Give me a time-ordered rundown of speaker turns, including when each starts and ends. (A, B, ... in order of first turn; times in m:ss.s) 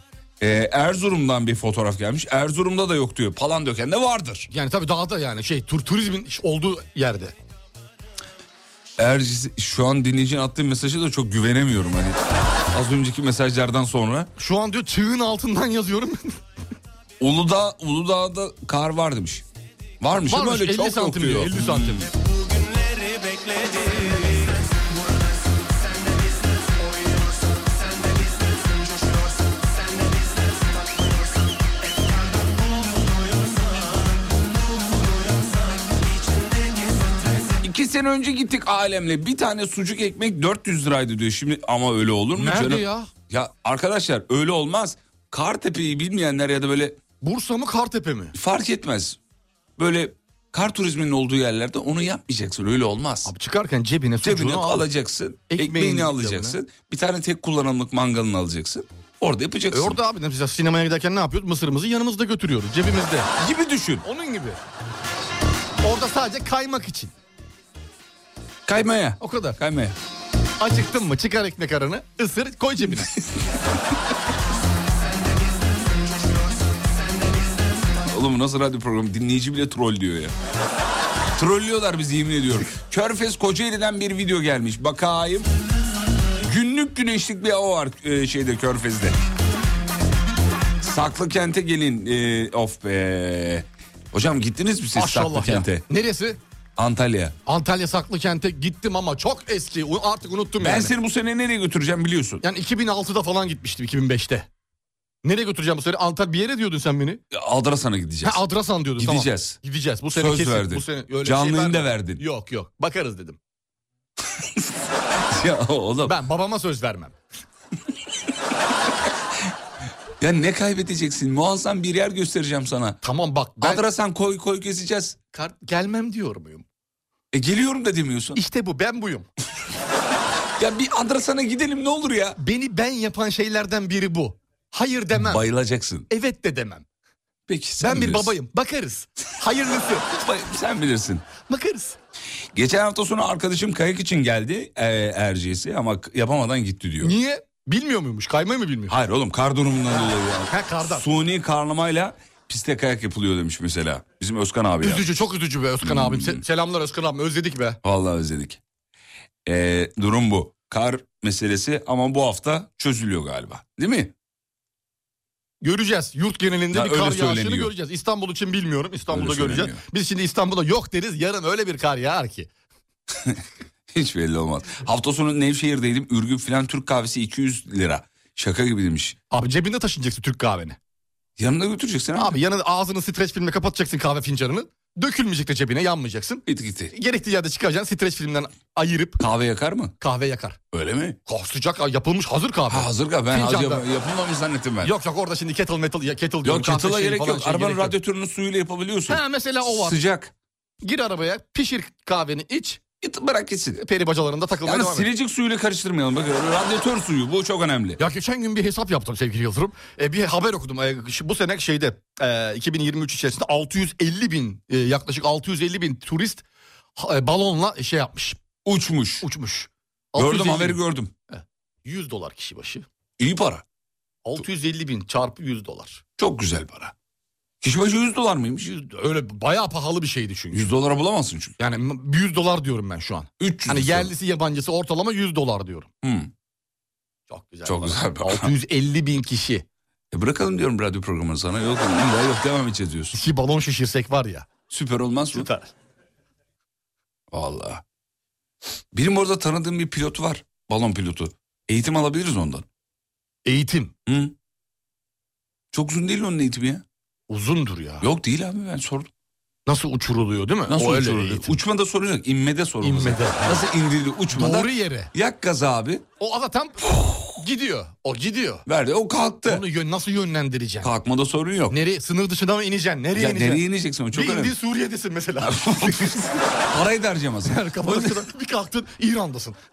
0:00.4-0:04.5 A
0:04.5-0:07.4 B
0:09.0-0:12.2 A
0:12.7-0:14.3 A
0:14.4-0:16.4 B
0:17.2-0:19.4 A
0:20.0-0:22.1 A
0:20.2-0:22.1 B
0:37.6-0:47.0 A
0:42.4-0:43.1 B
0:47.2-0:48.3 B
0:48.3-0:49.2 A
0:49.8-0:53.3 A
0:53.2-0:54.8 B
0:54.2-1:00.0 A
0:55.5-0:56.6 B
0:59.7-1:03.3 B
1:03.4-1:04.0 A
1:04.0-1:04.6 B
1:05.8-1:07.1 B
1:08.6-1:10.0 A
1:09.2-1:09.6 B
1:10.6-1:13.1 B
1:18.1-1:20.3 A
1:21.3-1:25.5 A
1:26.4-1:29.2 A
1:30.8-1:35.8 A
1:34.9-1:36.4 B
1:36.8-1:37.3 A
1:37.4-1:40.9 B
1:40.6-1:42.4 A
1:42.4-1:44.5 B
1:45.2-1:47.2 B
1:47.3-1:48.4 A
1:48.2-1:53.4 B
1:49.0-1:49.6 A
1:50.1-1:52.2 A
1:55.2-1:56.2 A
1:56.0-1:57.1 B
2:00.2-2:03.0 A
2:03.0-2:03.8 B
2:03.6-2:05.2 A
2:05.3-2:06.6 B
2:07.3-2:08.4 A
2:08.3-2:09.3 B
2:10.6-2:12.4 A
2:12.4-2:15.4 B
2:15.2-2:16.1 A
2:16.1-2:16.8 B
2:17.5-2:18.3 A
2:17.8-2:20.1 B
2:20.2-2:21.3 A
2:21.4-2:22.0 B
2:22.5-2:27.2 A
2:27.0-2:28.9 B
2:28.9-2:35.2 A
2:29.9-2:31.0 B
2:34.8-2:37.8 B
2:35.8-2:36.4 A
2:37.8-2:38.6 A
2:39.4-2:44.1 A
2:45.6-2:52.5 B
2:46.7-2:47.7 A
2:49.1-2:49.8 A
2:53.9-2:59.2 A
2:59.3-3:00.8 B
3:01.4-3:02.4 A
3:02.2-3:09.2 B
3:06.5-3:06.9 A
3:09.2-3:10.0 A
3:10.0-3:10.6 B
3:10.7-3:11.2 A
3:11.3-3:13.8 B
3:12.7-3:14.9 A
3:14.8-3:17.9 B
3:16.4-3:20.3 A
3:19.1-3:20.0 B
3:20.8-3:22.8 B
3:23.0-3:23.8 A
3:23.8-3:25.1 B
3:24.6-3:28.0 A
3:28.0-3:36.4 B
3:37.0-3:38.4 B
3:38.6-3:39.3 A
3:39.2-3:42.8 B
3:40.2-3:41.1 A
3:43.2-3:43.6 A
3:44.2-3:46.0 B
3:46.2-3:46.9 A
3:47.6-3:48.7 A
3:48.7-3:50.7 B
3:50.5-3:51.6 A
3:51.6-3:55.9 B
3:53.4-3:54.1 A
3:56.0-3:56.3 A
3:57.3-3:59.6 B
3:57.6-3:58.5 A
4:00.1-4:03.2 A
4:03.1-4:04.5 B
4:04.7-4:05.5 A
4:05.3-4:05.7 B
4:07.3-4:07.8 A
4:08.9-4:12.6 A
4:13.4-4:13.9 B
4:14.1-4:14.3 A
4:15.7-4:16.8 A
4:17.3-4:18.1 B
4:18.0-4:19.1 A
4:19.6-4:21.5 B
4:20.7-4:26.0 A
4:22.8-4:23.6 B
4:24.3-4:25.1 B
4:26.2-4:28.6 B
4:28.6-4:29.6 A
4:29.4-4:30.9 B
4:30.8-4:31.8 A
4:31.7-4:36.3 B
4:33.1-4:34.5 A
4:35.4-4:38.2 A
4:37.4-4:39.6 B